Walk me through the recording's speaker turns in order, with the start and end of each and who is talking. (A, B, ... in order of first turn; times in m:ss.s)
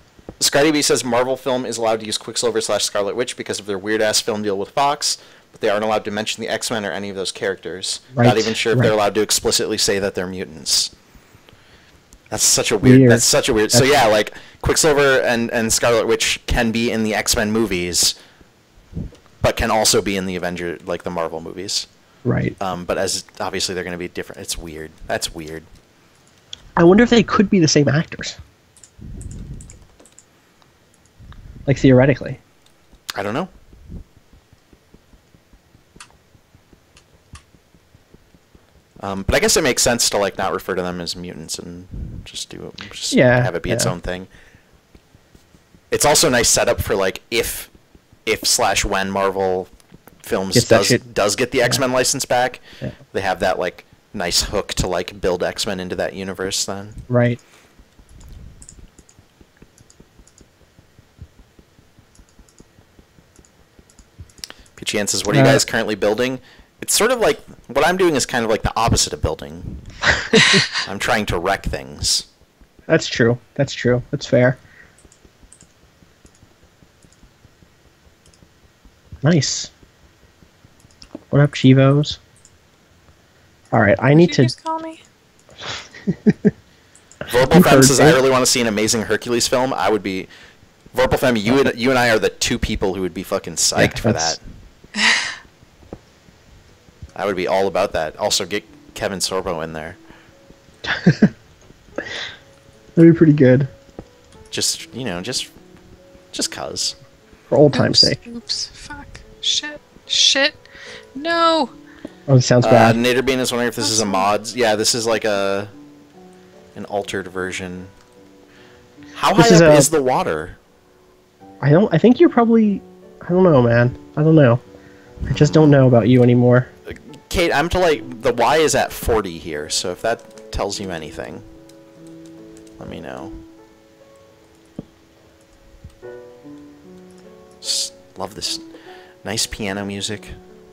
0:00.4-0:10.9 A
0:08.1-0:08.9 B
0:12.3-0:18.1 A
0:12.8-0:13.9 B
0:19.4-0:21.9 A
0:22.2-0:22.5 B
0:22.6-0:25.6 A
0:26.8-0:28.4 B
0:31.6-0:32.4 B
0:33.1-0:33.5 A
0:39.0-0:44.3 A
0:43.1-0:43.9 B
0:45.9-0:47.7 A
0:48.2-0:49.7 A
0:50.2-0:52.6 A
0:50.5-0:51.0 B
0:53.1-0:57.0 A
0:57.1-0:57.4 B
1:04.8-1:09.9 A
1:05.3-1:05.6 B
1:10.7-1:12.2 A
1:12.9-1:14.6 B
1:19.2-1:19.7 B
1:21.3-1:22.2 B
1:23.7-1:24.5 B
1:24.1-1:25.0 C
1:25.7-1:26.5 B
1:27.3-1:30.3 A
1:27.5-1:28.2 B
1:30.9-1:34.4 A
1:33.8-1:34.4 B
1:37.1-1:40.0 A
1:40.8-1:41.3 B
1:43.0-1:43.7 B
1:44.5-1:45.5 A
1:46.3-1:47.0 A
1:47.5-1:48.2 B
1:47.7-1:50.6 C
1:51.1-1:51.7 C
1:52.3-1:53.0 B
1:52.6-1:55.7 A
1:53.8-1:54.3 C
1:56.7-1:57.9 A
1:59.1-2:00.6 A
1:59.4-1:59.9 B
2:01.6-2:04.6 B
2:05.2-2:05.8 A
2:05.3-2:06.7 B
2:06.9-2:11.4 A
2:12.8-2:13.4 A
2:17.6-2:18.6 A
2:19.2-2:20.4 A